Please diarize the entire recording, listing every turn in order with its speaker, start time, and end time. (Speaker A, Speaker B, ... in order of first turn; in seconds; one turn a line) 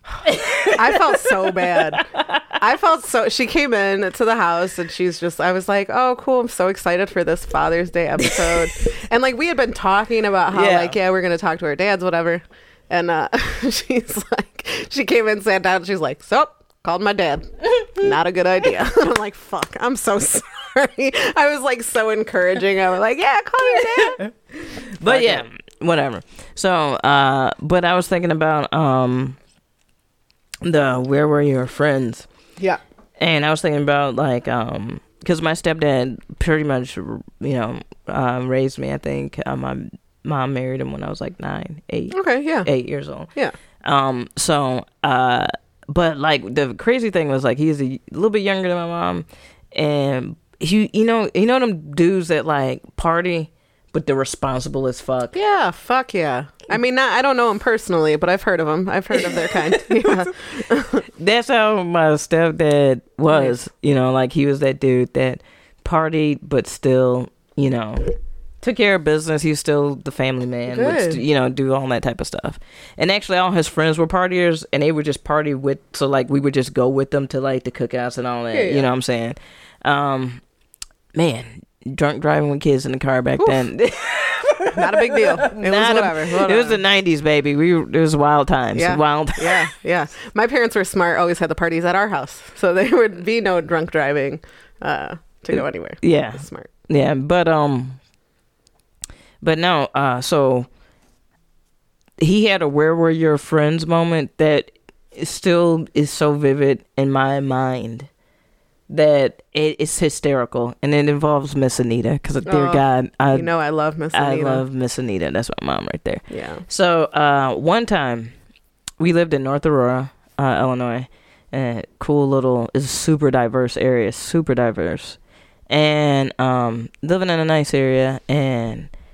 Speaker A: 0.2-1.3
Speaker B: 0.7-2.0
Speaker A: 2.0-2.4
Speaker B: 2.6-24.2
Speaker A: 10.5-10.9
Speaker A: 17.8-18.1
Speaker A: 23.7-29.4
Speaker B: 25.0-25.5
Speaker A: 30.6-32.2
Speaker A: 33.2-43.3
Speaker B: 42.1-42.7
Speaker A: 43.8-55.3
Speaker B: 55.3-61.0
Speaker A: 59.9-60.1
Speaker A: 61.2-80.4
Speaker B: 63.3-63.5
Speaker B: 70.7-71.2
Speaker B: 78.5-78.9
Speaker A: 81.2-89.7
Speaker B: 83.4-83.6
Speaker B: 84.7-86.8
Speaker B: 88.8-96.7
Speaker A: 95.5-98.0
Speaker A: 99.4-100.7
Speaker A: 102.2-108.1
Speaker A: 108.9-113.5
Speaker B: 112.5-114.6
Speaker A: 114.1-118.3
Speaker B: 116.3-116.7
Speaker A: 119.0-125.2
Speaker A: 125.7-128.9